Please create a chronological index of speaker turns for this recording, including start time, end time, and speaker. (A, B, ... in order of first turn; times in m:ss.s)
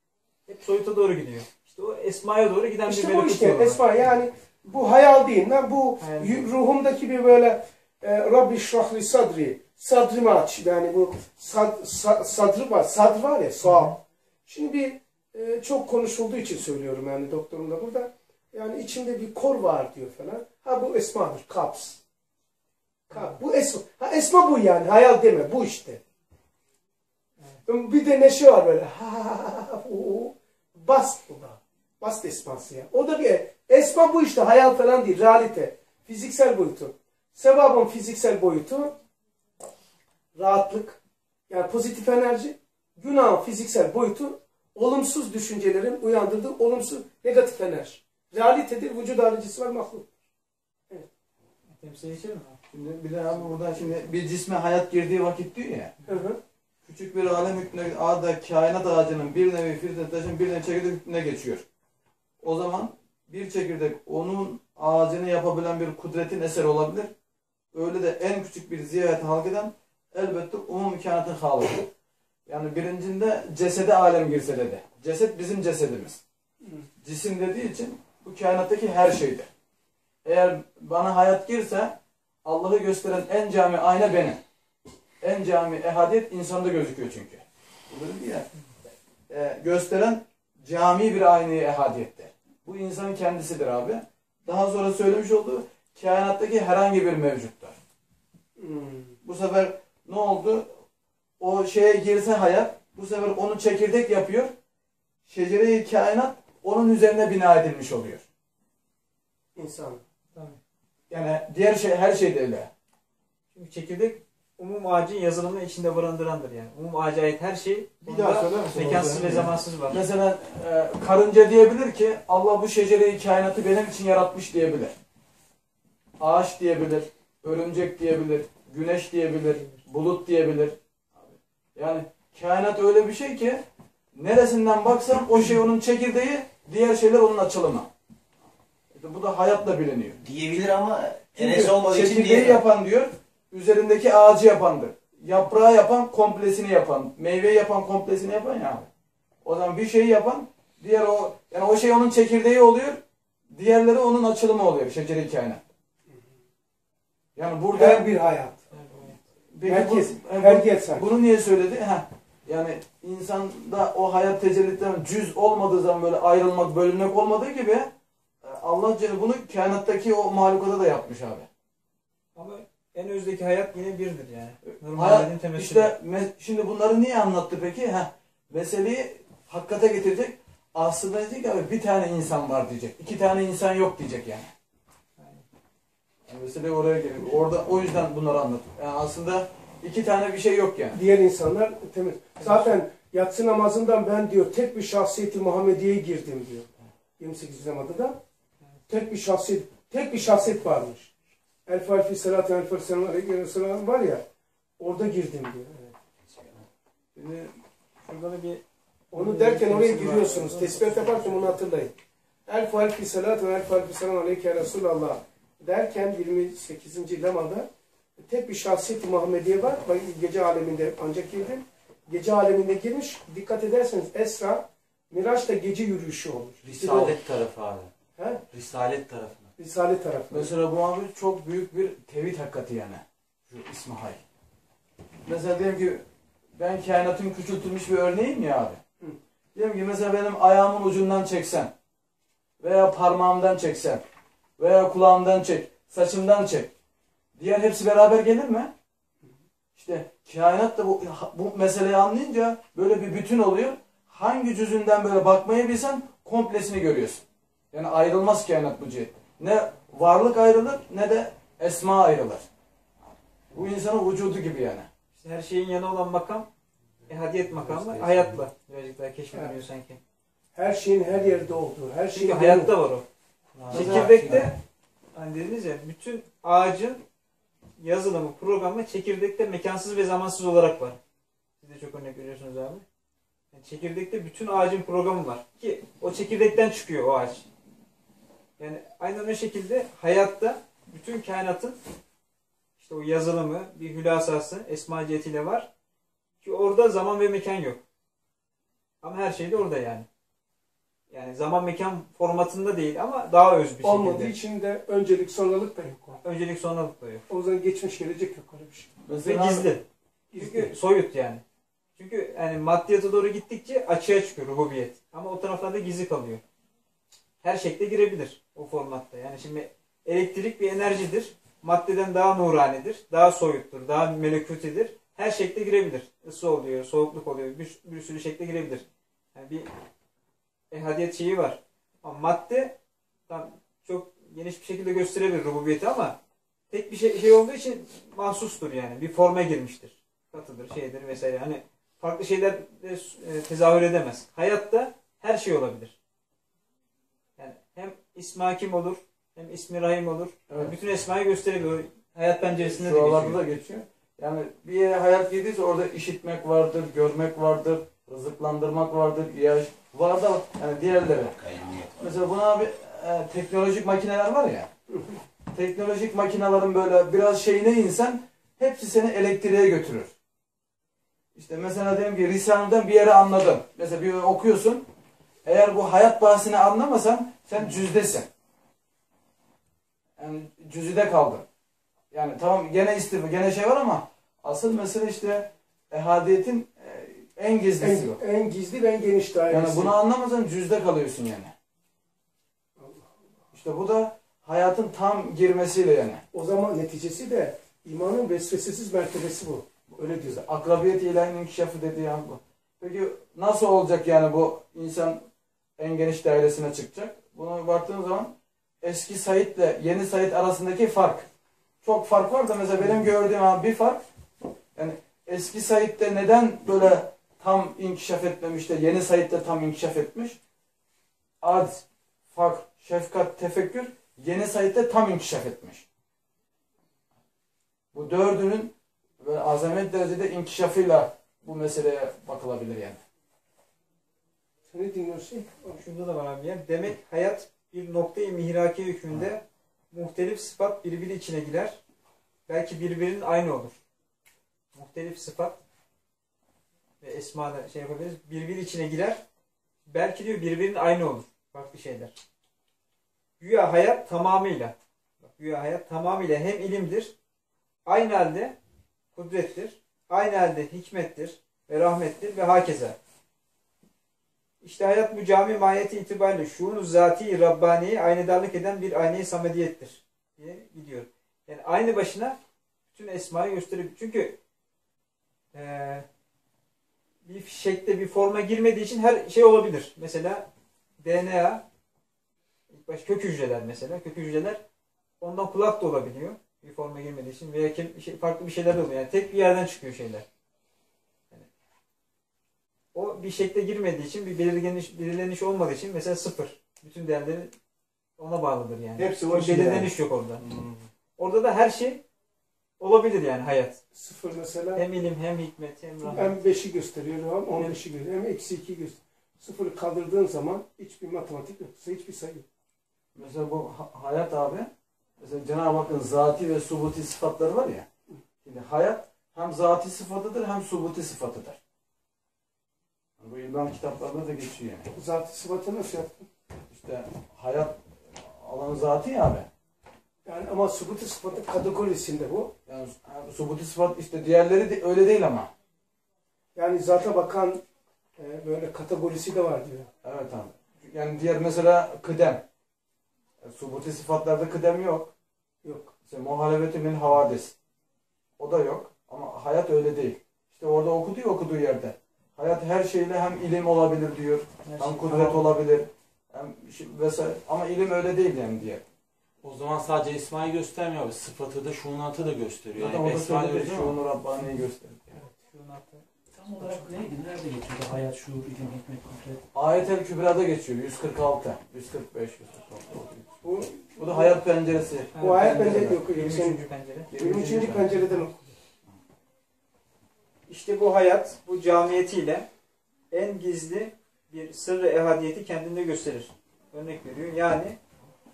0:00.5-0:03.8 A
0:02.9-0:22.0 B
0:06.0-0:06.5 A
0:23.1-0:26.0 B
0:23.1-0:23.4 A
0:27.7-0:38.9 B
0:40.4-0:50.1 B
0:51.8-0:52.6 A
0:52.7-0:55.9 C
0:53.4-0:53.8 A
0:56.1-0:56.4 B
0:56.9-1:01.6 C
1:02.4-1:07.1 C
1:07.7-1:11.9 C
1:12.5-1:16.2 C
1:16.6-1:16.9 B
1:17.0-1:19.5 C
1:20.2-1:24.4 C
1:25.2-1:28.5 C
1:29.3-1:37.8 C
1:38.6-1:39.2 B
1:39.2-1:40.7 C
1:41.4-1:44.5 C
1:45.3-1:48.2 C
1:49.6-1:50.0 B
1:50.3-1:50.6 A
1:51.1-1:52.7 C
1:53.5-2:00.0 A
1:58.1-1:59.4 B
1:58.1-2:05.0 C
2:06.2-2:13.6 C
2:14.1-2:17.9 C
2:18.9-2:20.2 C
2:20.2-2:22.6 D
2:21.4-2:28.9 C
2:29.4-2:33.0 C
2:33.5-2:35.6 C
2:37.4-2:38.1 C
2:37.7-2:38.6 B
2:38.7-2:39.2 A
2:39.5-2:47.9 C
2:39.6-2:41.1 B
2:48.4-2:51.5 C
2:52.4-2:55.9 A
2:54.7-3:04.5 C
3:05.2-3:05.4 A
3:06.3-3:11.0 C
3:10.9-3:18.2 B
3:12.4-3:12.7 A
3:18.9-3:21.1 B
3:21.7-3:24.2 B
3:24.8-3:26.0 B
3:27.2-3:27.5 C
3:28.0-3:28.6 A
3:29.1-3:32.0 B
3:29.1-3:31.6 A
3:32.5-3:47.2 B
3:46.6-3:47.9 E
3:48.2-3:48.4 B
3:48.5-3:49.5 E
3:49.6-3:50.5 B
3:50.3-3:54.2 C
3:55.3-3:56.0 C
3:56.6-3:58.8 C
3:59.6-4:01.7 C
4:02.6-4:04.0 C
4:04.6-4:06.7 C
4:07.4-4:08.7 C
4:09.8-4:22.5 C
4:23.5-4:24.9 C
4:25.2-4:26.5 A
4:27.1-4:30.0 A
4:30.5-4:32.7 B
4:32.1-4:33.1 A
4:33.6-4:34.5 F
4:33.7-4:34.5 C
4:33.7-4:34.6 A
4:33.8-4:34.5 E
4:35.1-4:37.0 A
4:37.8-4:41.0 A
4:41.6-4:42.8 A
4:43.5-4:47.5 A
4:48.6-4:51.8 A
4:52.8-4:55.7 A
4:56.4-4:57.8 A
4:59.0-5:00.1 A
5:01.1-5:04.4 A
5:03.8-5:06.2 B
5:06.2-5:07.2 A
5:07.3-5:08.9 B
5:09.0-5:09.7 C
5:09.2-5:09.8 A
5:10.3-5:10.7 B
5:10.4-5:11.4 A
5:12.0-5:16.4 A
5:17.4-5:29.7 A
5:30.7-5:32.8 A
5:33.3-5:36.2 A
5:36.7-5:46.0 A
5:47.4-5:53.4 A
5:50.5-5:50.8 C
5:52.6-6:01.4 C
6:01.4-6:02.2 D
6:02.0-6:04.7 C
6:04.9-6:05.2 B
6:05.5-6:10.1 C
6:11.4-6:14.8 C
6:15.4-6:18.3 C
6:20.2-6:21.4 C
6:22.1-6:28.2 C
6:27.8-6:29.9 B
6:29.5-6:31.5 C
6:32.8-6:33.2 B
6:33.5-6:36.2 C
6:36.3-6:40.4 B
6:40.1-6:45.2 C
6:45.8-6:51.3 C
6:51.8-6:54.0 C
6:54.8-7:00.4 C
7:01.4-7:05.8 C
7:07.9-7:13.0 C
7:14.7-7:15.8 B
7:15.8-7:21.8 A
7:22.5-7:23.8 A
7:24.7-7:25.6 A
7:27.0-7:29.2 A
7:29.8-7:32.1 A
7:33.4-7:37.1 A
7:37.9-7:38.6 A
7:39.1-7:43.0 A
7:44.6-7:52.4 A
7:52.9-7:54.4 A
7:55.5-7:56.1 A
7:57.2-8:00.5 A
8:01.0-8:01.6 A
8:02.7-8:04.6 A
8:05.2-8:10.2 A
8:12.9-8:17.5 A
8:18.2-8:20.4 A
8:19.0-8:19.9 D
8:20.5-8:20.7 E
8:21.2-8:22.0 A
8:22.8-8:23.8 A
8:23.9-8:24.8 B
8:24.8-8:26.4 A
8:26.0-8:32.5 B
8:33.2-8:34.7 C
8:35.2-8:37.9 C
8:38.4-8:41.6 C
8:43.2-8:44.9 C
8:45.0-8:46.3 B
8:46.7-8:49.5 C
8:50.3-8:52.5 B
8:52.7-8:55.5 C
8:56.6-8:57.6 B
8:58.2-8:59.9 B
9:00.0-9:02.4 C
9:03.4-9:05.1 C
9:05.6-9:05.9 B
9:06.1-9:07.6 C
9:08.4-9:18.8 C
9:14.6-9:15.5 A
9:19.4-9:24.0 E
9:22.8-9:25.2 C
9:25.4-9:26.9 A
9:26.3-9:29.4 F
9:29.5-9:33.3 C
9:33.4-9:34.4 A
9:34.0-9:36.0 C
9:35.1-9:37.1 A
9:35.2-9:36.6 B
9:37.1-9:37.9 C
9:37.2-9:38.5 B
9:40.5-9:42.5 A
9:43.1-9:47.8 A